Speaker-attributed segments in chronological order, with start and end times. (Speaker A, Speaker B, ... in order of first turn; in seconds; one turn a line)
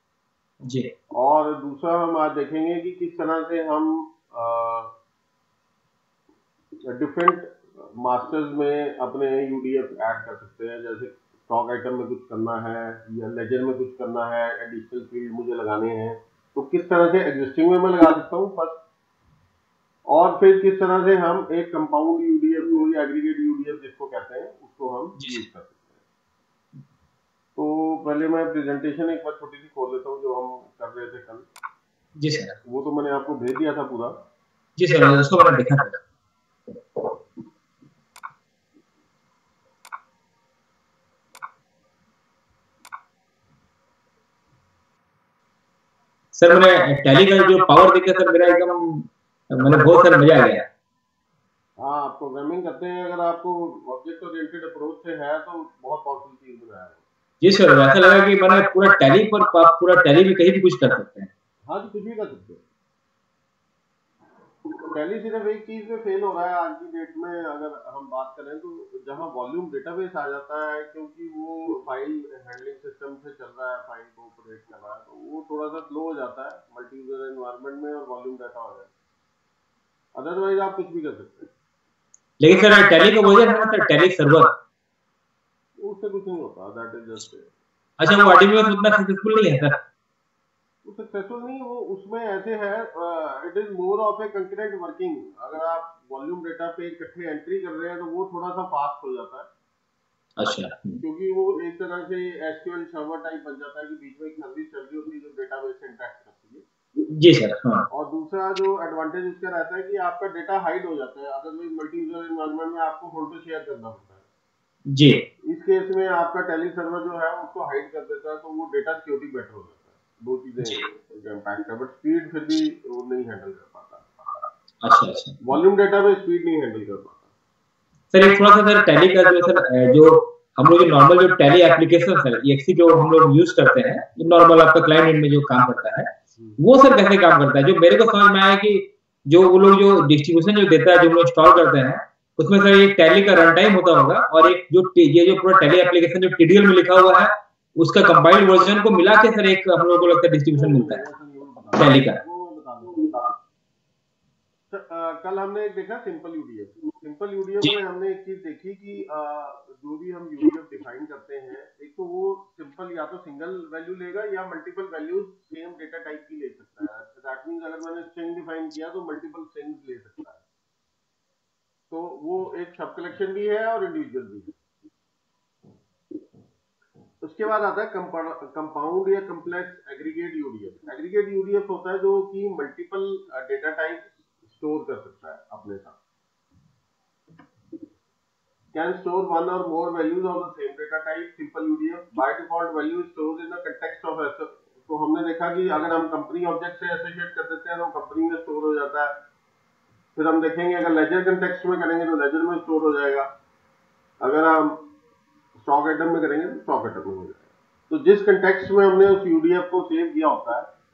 Speaker A: 0.6-0.9
Speaker B: 1.1-4.9
Speaker B: 6.9-18.8
Speaker B: 20.1-26.0
Speaker A: 25.2-25.4
Speaker B: 27.6-31.4
Speaker A: 32.2-32.5
Speaker B: 32.6-34.2
Speaker A: 34.8-36.0
Speaker A: 46.3-50.6
Speaker B: 51.8-57.0
Speaker A: 57.4-61.3
Speaker B: 61.7-62.6
Speaker B: 64.8-78.9
Speaker B: 80.2-81.5
Speaker A: 82.4-84.5
Speaker B: 85.8-87.5
Speaker A: 88.0-89.8
Speaker B: 90.8-99.5
Speaker A: 100.4-101.0
Speaker B: 101.0-106.6
Speaker A: 107.0-107.8
Speaker B: 107.9-114.2
Speaker A: 114.9-115.2
Speaker B: 115.5-124.1
Speaker A: 124.8-125.4
Speaker B: 125.4-127.3
Speaker A: 128.1-151.0
Speaker B: 150.5-153.3
Speaker A: 151.8-152.2
Speaker B: 154.7-170.4
Speaker B: 171.9-174.6
Speaker B: 177.2-186.0
Speaker B: 188.7-199.2
Speaker B: 200.2-203.3
Speaker B: 204.2-204.9
Speaker B: 205.6-210.7